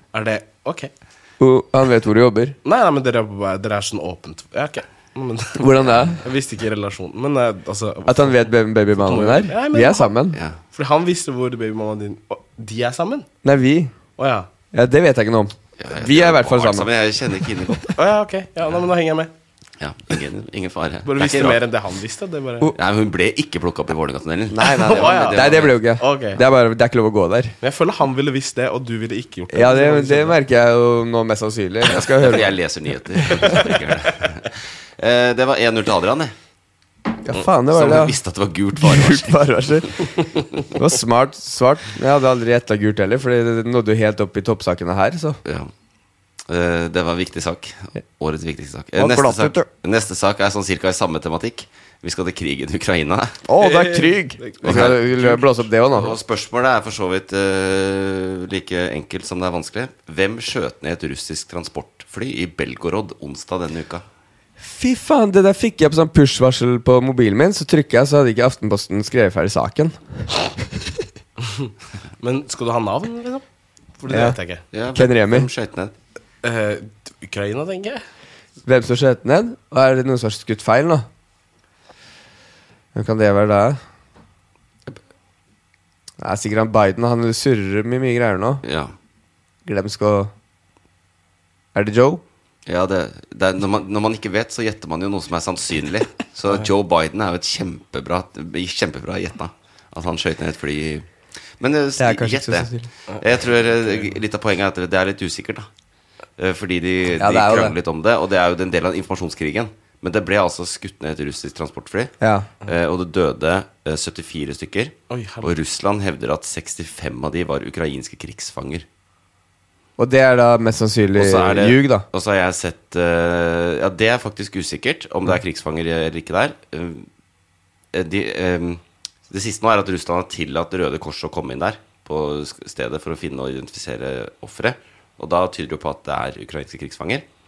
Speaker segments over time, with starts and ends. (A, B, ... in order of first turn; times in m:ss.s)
0:00.1-0:00.9 A
0:01.4-0:02.6 B
0:02.6-0:10.1 A
0:05.6-0:06.2 B
0:08.1-0:10.4 B
0:10.3-0:10.6 C
0:10.7-0:13.3 A
0:13.4-0:13.9 B
0:14.2-0:14.5 A
0:14.7-0:16.9 B
0:15.8-0:18.0 C
0:18.0-0:19.3 A
0:19.8-0:21.6 C
0:21.0-0:22.7 A
0:22.8-0:25.8 C
0:24.5-0:27.6 B
0:24.8-0:26.4 A
0:27.6-0:30.4 A
0:29.5-0:32.5 B
0:31.9-0:36.3 C
0:37.2-0:38.2 B
0:37.3-0:39.6 C
0:38.8-0:40.1 B
0:40.8-0:45.4 B
0:45.4-0:45.7 C
0:46.5-0:53.4 C
0:49.0-0:49.7 B
0:53.5-0:56.1 B
0:53.6-0:55.6 A
0:54.6-0:55.1 C
0:55.9-1:04.0 C
1:04.6-1:10.0 B
1:12.2-1:13.4 A
1:14.0-1:14.6 A
1:14.1-1:14.4 B
1:14.7-1:16.0 C
1:15.0-1:15.5 B
1:16.4-1:18.0 A
1:18.7-1:21.1 B
1:23.0-1:23.8 B
1:26.2-1:28.6 B
1:28.6-1:28.9 C
1:29.7-1:30.3 B
1:31.8-1:32.2 B
1:32.7-1:41.1 C
1:41.6-1:45.7 C
1:42.0-1:42.9 B
1:46.4-1:58.9 C
1:47.2-1:47.8 B
1:52.2-1:52.5 B
1:55.1-1:55.5 A
2:00.0-2:02.0 B
2:01.2-2:07.1 C
2:07.9-2:17.3 C